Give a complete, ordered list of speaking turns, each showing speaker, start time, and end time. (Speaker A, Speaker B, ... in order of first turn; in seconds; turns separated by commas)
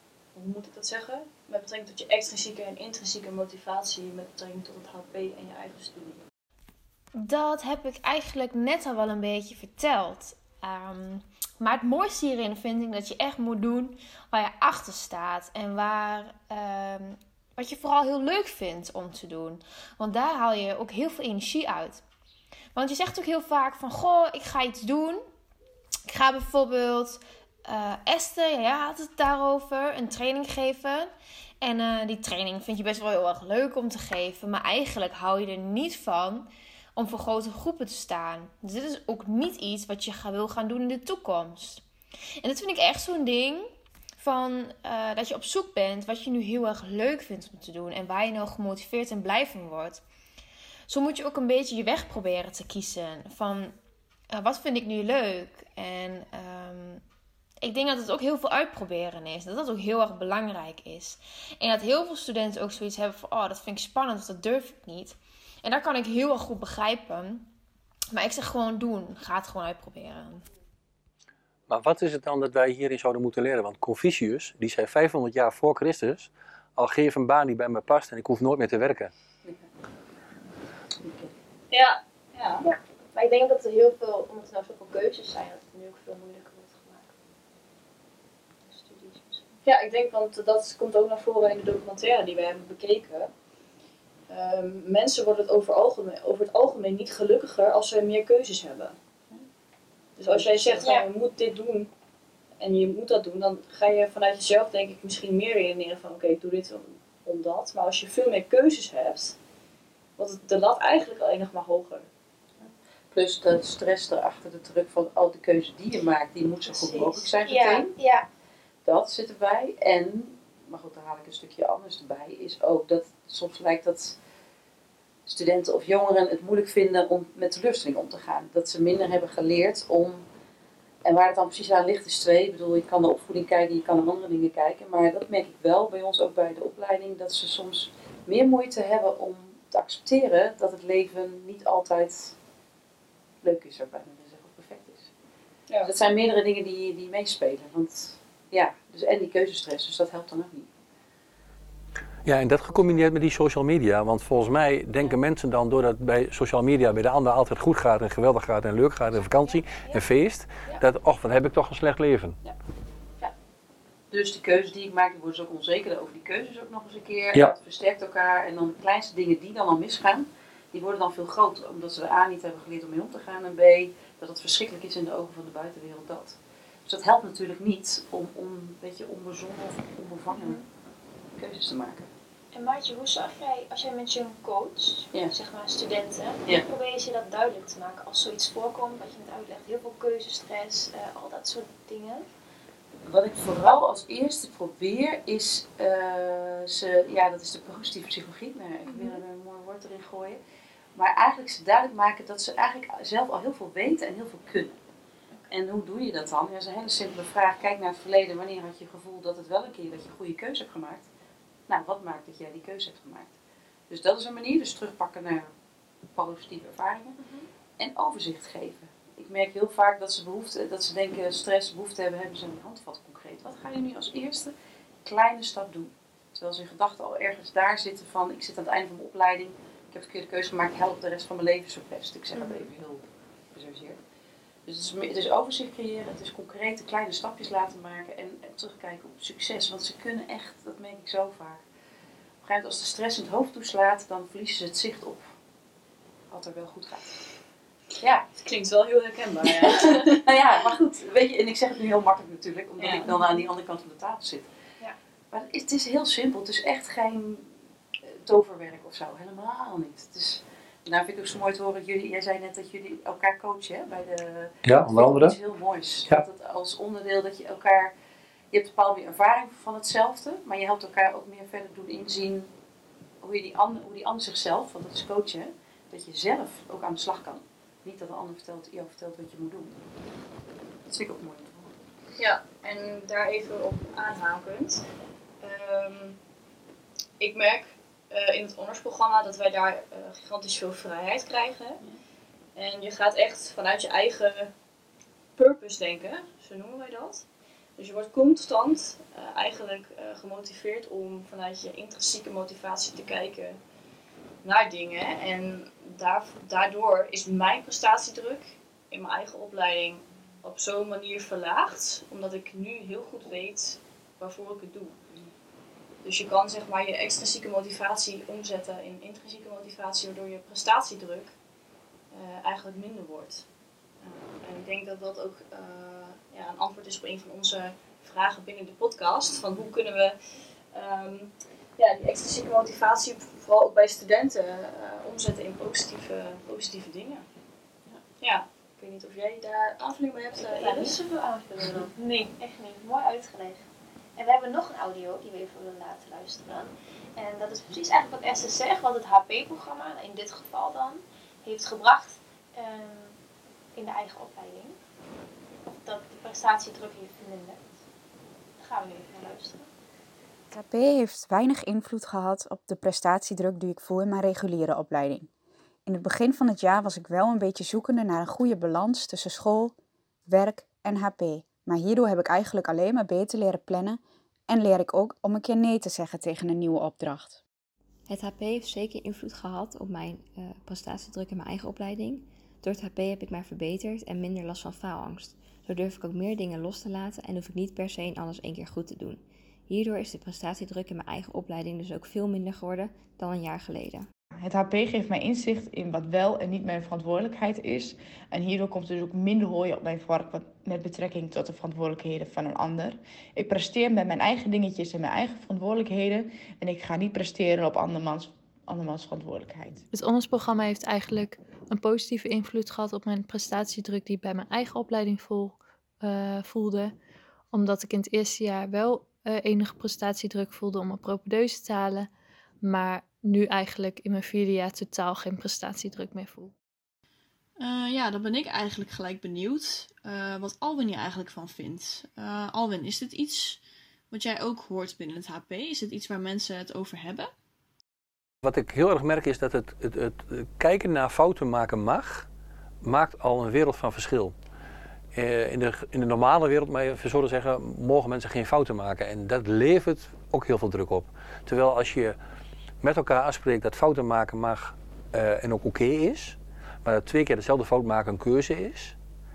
Speaker A: 0.3-6.2, Speaker B: 7.1-22.0, Speaker B: 22.7-25.2, Speaker B: 26.1-31.1, Speaker B: 31.6-41.8, Speaker B: 42.4-50.0, Speaker B: 50.9-53.7, Speaker B: 54.3-57.0, Speaker B: 57.6-67.5, Speaker B: 68.1-70.4, Speaker C: 71.7-79.1, Speaker D: 81.0-81.3, Speaker A: 81.7-82.6, Speaker E: 82.6-87.1, Speaker E: 88.6-89.6, Speaker A: 89.6-93.3, Speaker A: 94.3-99.5, Speaker A: 100.2-101.9, Speaker D: 100.3-100.9, Speaker E: 100.7-101.1, Speaker A: 102.6-109.3, Speaker A: 110.2-112.1, Speaker D: 112.6-117.9, Speaker E: 116.7-118.3, Speaker D: 118.8-124.2, Speaker D: 125.3-130.2, Speaker D: 131.0-142.3, Speaker D: 143.4-145.1, Speaker D: 145.8-150.7, Speaker C: 152.2-162.4, Speaker D: 152.7-153.0, Speaker E: 159.2-160.0, Speaker D: 164.1-180.6, Speaker E: 180.3-180.6, Speaker D: 181.4-182.1, Speaker E: 182.5-192.2, Speaker D: 193.1-200.4, Speaker E: 198.9-199.2, Speaker D: 200.9-204.8, Speaker D: 205.5-211.1, Speaker D: 211.7-213.3, Speaker D: 213.9-215.5, Speaker D: 216.1-217.2, Speaker A: 217.2-217.4, Speaker D: 217.8-234.0, Speaker E: 232.3-232.7, Speaker D: 234.7-241.6, Speaker D: 242.4-245.3, Speaker D: 246.3-247.2, Speaker D: 248.0-248.3, Speaker A: 248.4-250.2, Speaker D: 249.4-254.5, Speaker A: 252.8-253.2, Speaker D: 255.3-257.5, Speaker D: 258.1-267.9, Speaker C: 264.6-265.3, Speaker D: 268.5-272.5, Speaker D: 273.2-279.8, Speaker D: 280.9-281.7, Speaker A: 282.2-284.8, Speaker A: 285.4-286.2, Speaker A: 287.2-291.9, Speaker A: 292.5-294.5, Speaker A: 295.4-297.2, Speaker A: 297.8-303.6, Speaker A: 304.4-314.9, Speaker A: 316.0-321.3, Speaker A: 322.1-323.4, Speaker A: 324.0-330.2, Speaker A: 330.7-337.2, Speaker A: 338.2-341.0, Speaker E: 340.3-353.2, Speaker E: 353.7-354.8, Speaker E: 355.6-357.7, Speaker E: 358.6-359.7, Speaker F: 360.5-365.3, Speaker F: 365.9-369.7, Speaker F: 370.3-377.4, Speaker G: 378.1-394.1, Speaker H: 394.4-409.8, Speaker I: 409.9-416.9, Speaker I: 417.5-422.1, Speaker I: 422.6-426.5, Speaker J: 427.6-437.3, Speaker C: 438.4-442.3, Speaker C: 442.8-444.3, Speaker C: 445.1-452.2, Speaker C: 452.8-458.9